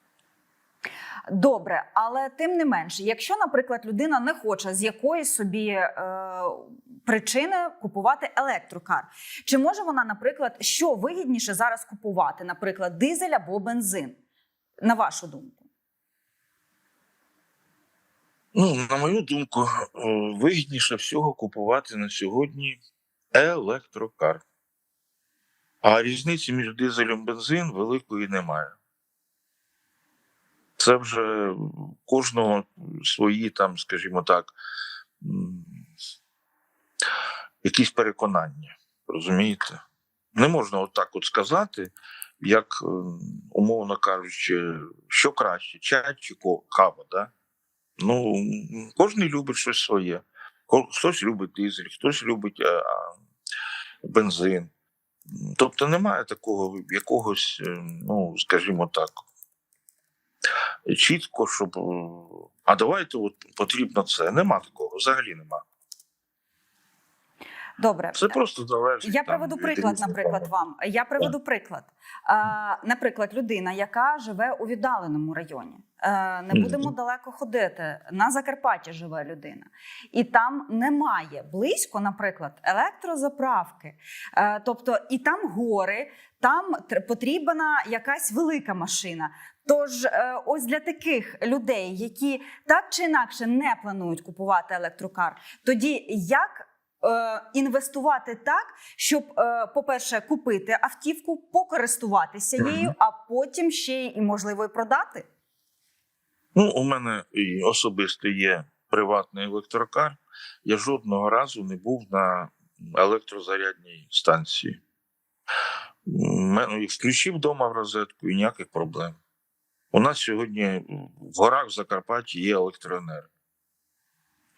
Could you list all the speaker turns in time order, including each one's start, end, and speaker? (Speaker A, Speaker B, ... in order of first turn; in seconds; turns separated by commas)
Speaker A: 1.3-14.2, Speaker A: 14.8-15.6, Speaker B: 18.5-22.8, Speaker B: 23.3-24.4, Speaker B: 25.8-28.8, Speaker B: 30.8-34.5, Speaker B: 35.2-35.8, Speaker B: 37.6-39.8, Speaker B: 40.3-47.3, Speaker B: 48.0-53.2, Speaker B: 54.0-54.7, Speaker B: 55.3-59.2, Speaker B: 60.9-65.6, Speaker A: 67.8-68.4, Speaker B: 68.1-70.5, Speaker A: 69.0-105.3, Speaker B: 76.5-76.9, Speaker B: 102.6-102.9, Speaker B: 106.5-114.8, Speaker B: 116.0-119.2, Speaker B: 119.9-123.3